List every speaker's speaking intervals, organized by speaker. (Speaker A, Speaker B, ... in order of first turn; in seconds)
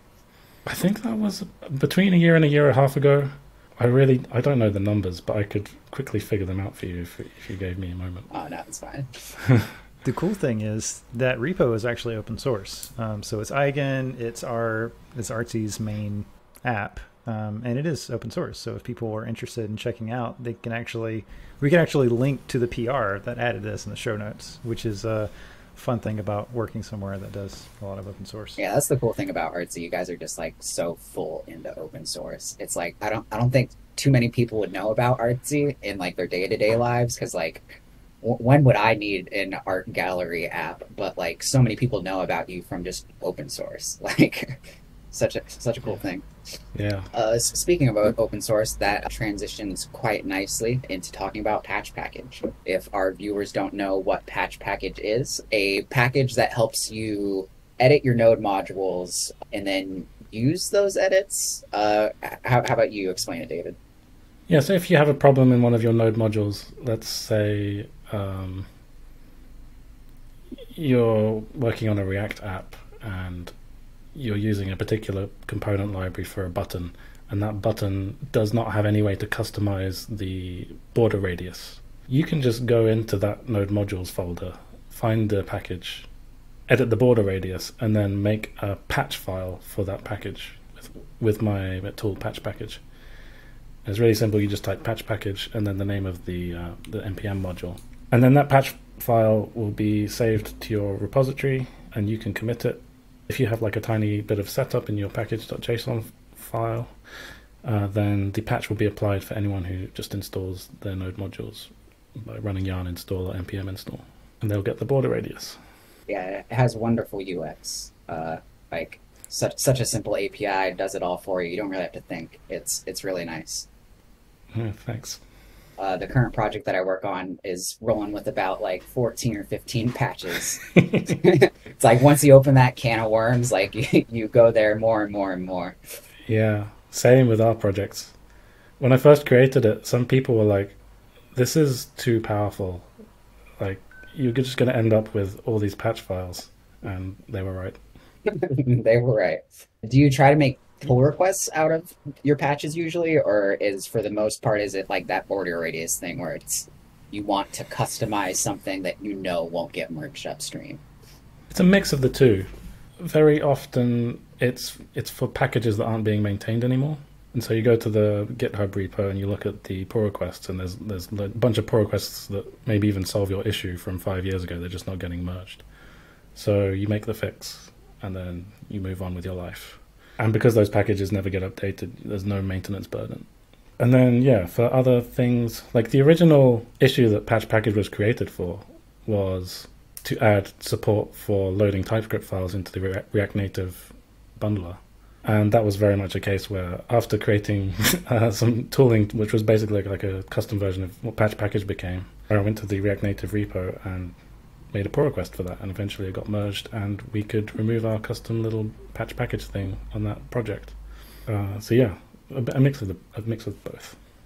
Speaker A: 0.7-8.3, 9.4-9.7, 46.8-47.1, 64.5-68.7, 70.8-73.5, 74.2-86.1, 86.7-92.8, 93.8-106.9, 107.6-115.6, 124.5-125.2, 130.7-131.1, 136.3-138.1, 138.8-140.8, 141.3-142.9, 143.6-147.8, 161.5-162.5, 163.0-175.6, 176.3-183.3, 183.8-204.2, 204.7-210.8, 211.3-214.0
Speaker B: 8.3-9.3, 28.6-46.2, 47.1-63.8, 116.1-123.7, 125.8-135.8, 148.3-160.8
Speaker C: 10.0-28.6